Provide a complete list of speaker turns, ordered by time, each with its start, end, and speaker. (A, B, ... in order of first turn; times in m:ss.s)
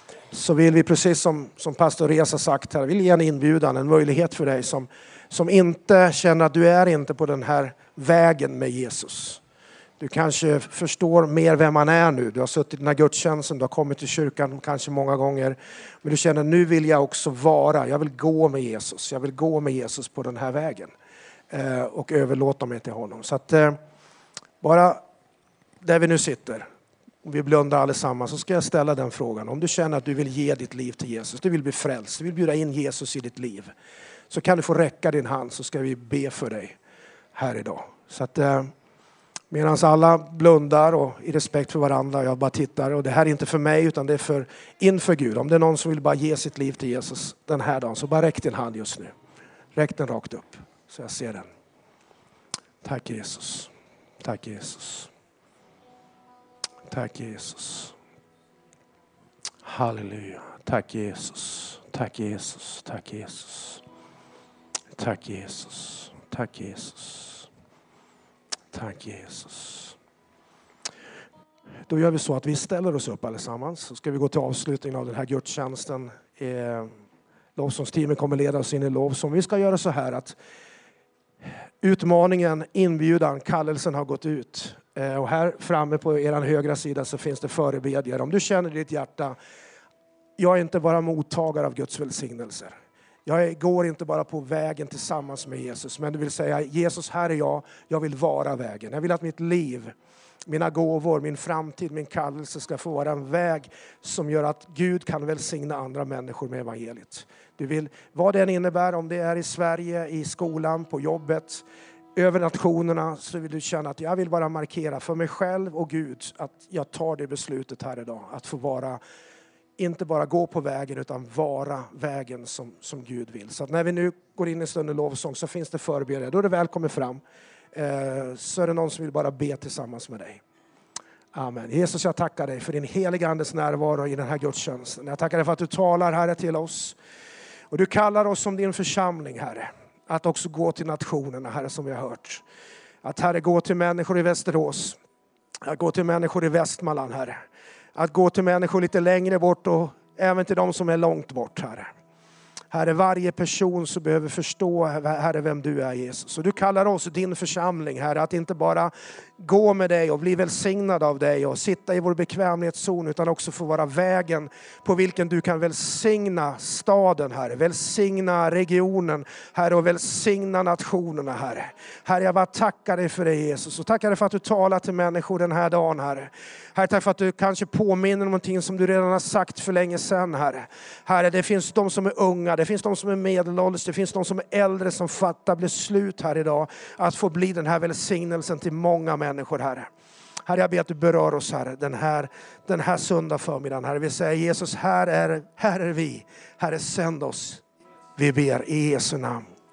0:00.3-0:09.4 A
0:10.0-0:20.9 A
0:21.5-0:23.8 A
0:24.6-0:25.0 A
0:25.8-0:26.7 A
0:27.2-0:33.7 A
0:34.3-0:36.8 A
0:37.3-0:38.7 A
0:39.5-0:49.1 A
0:49.8-0:51.5 A
0:52.8-0:53.7 A
0:54.2-0:55.1 A
0:56.9-0:58.0 A
0:59.6-1:03.8 A
1:05.0-1:07.5 A
1:08.7-1:10.0 A
1:11.9-1:16.9 A
1:17.6-1:20.4 A
1:21.8-1:29.4 A
1:30.4-1:39.9 A
1:40.5-1:59.0 A
1:59.8-2:07.2 A
2:07.7-2:10.4 A
2:11.3-2:17.0 A
2:17.7-2:22.4 A
2:23.0-2:25.0 A
2:25.6-2:27.4 A
2:28.0-2:31.9 A
2:32.7-3:09.9 A
3:10.5-3:17.6 A
3:18.2-3:19.4 A